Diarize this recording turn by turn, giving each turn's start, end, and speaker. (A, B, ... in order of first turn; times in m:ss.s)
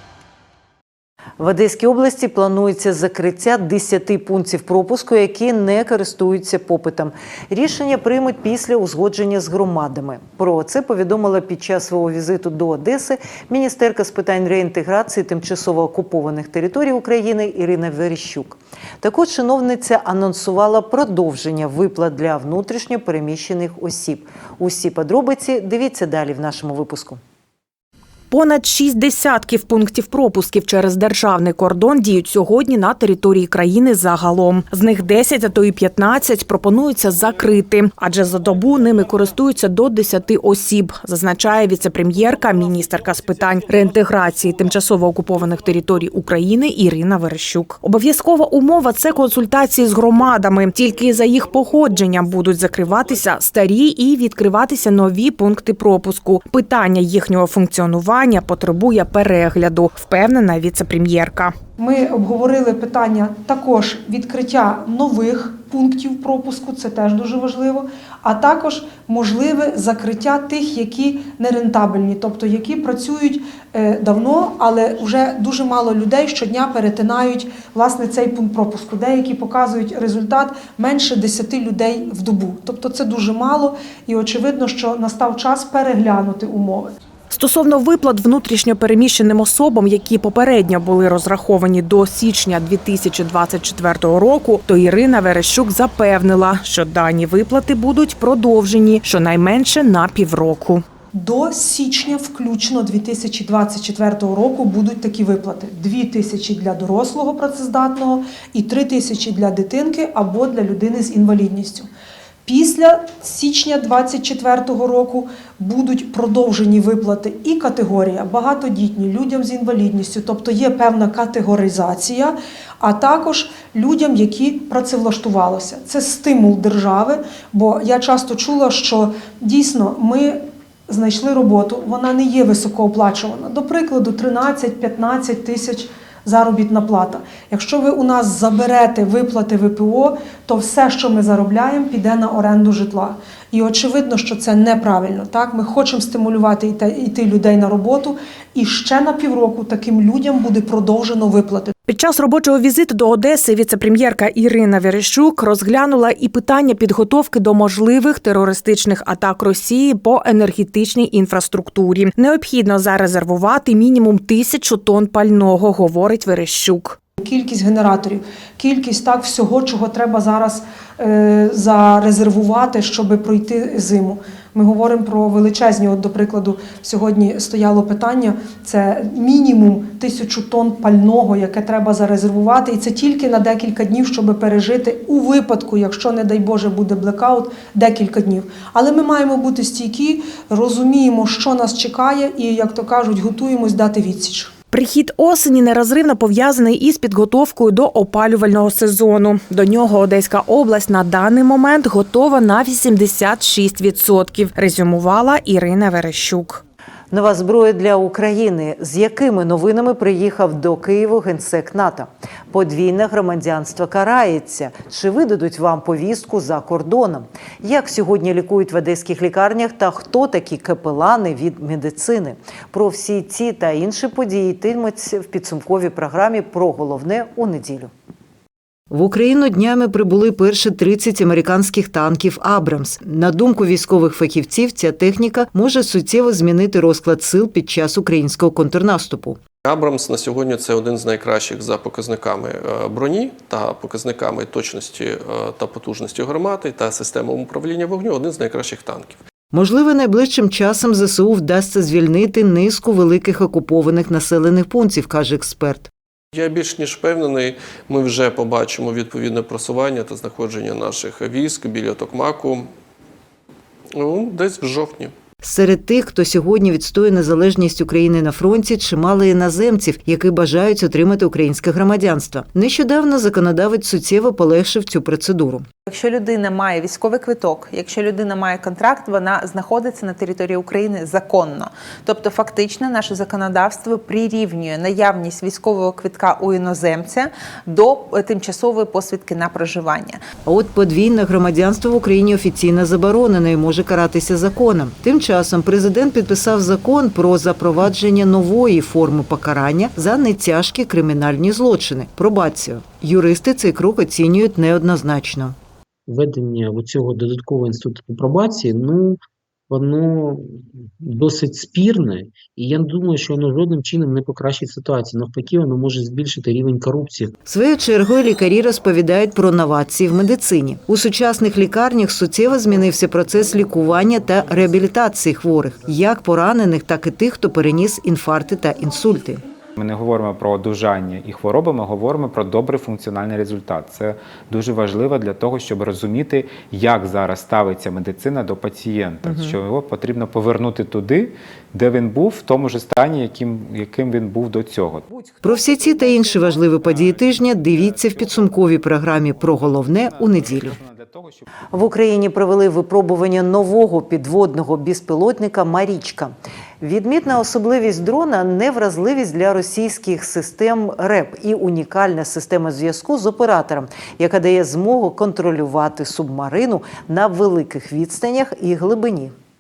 0:01.4-0:27.2 A
0:28.3-1:01.6 B
1:01.8-1:26.9 C
1:27.3-1:40.8 B
1:41.1-1:51.9 C
1:52.5-2:31.8 C
2:31.9-2:47.0 B
2:47.2-3:14.5 C
3:14.7-3:26.6 B
3:27.1-3:47.9 A
3:48.9-3:59.4 A
3:59.6-4:09.2 D
4:09.5-4:15.9 A
4:16.3-4:22.7 D
4:24.0-4:25.1 D
4:25.4-4:35.7 A
4:35.9-4:50.2 E
4:50.4-5:05.6 A
5:06.1-5:17.4 F
5:17.5-5:29.4 A
5:29.8-5:51.5 G
5:45.4-5:50.8 A
5:51.7-6:09.4 A